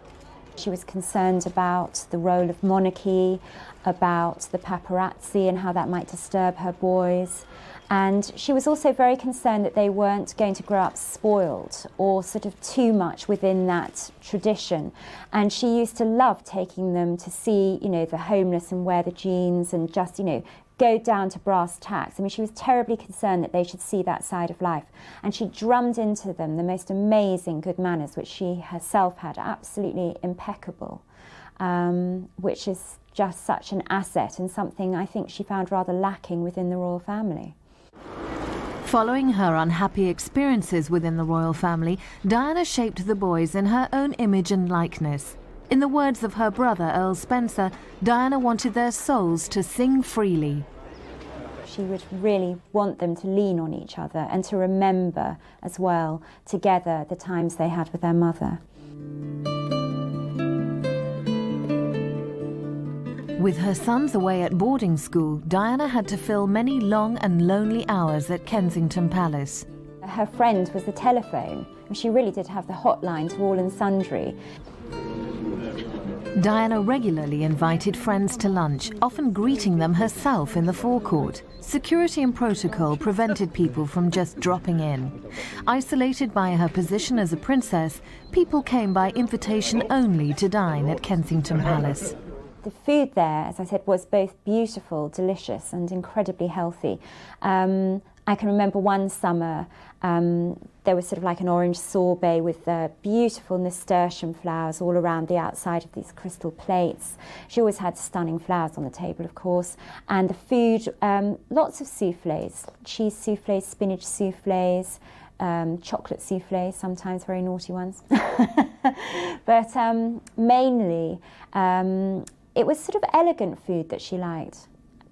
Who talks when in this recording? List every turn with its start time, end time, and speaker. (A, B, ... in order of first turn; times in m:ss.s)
0:00.6-0:31.0 A
0:31.6-0:37.6 A
0:38.8-0:50.6 B
0:51.6-0:58.6 A
1:03.4-1:09.6 B
1:10.0-1:14.4 A
1:16.4-1:32.1 B
1:32.6-2:04.7 A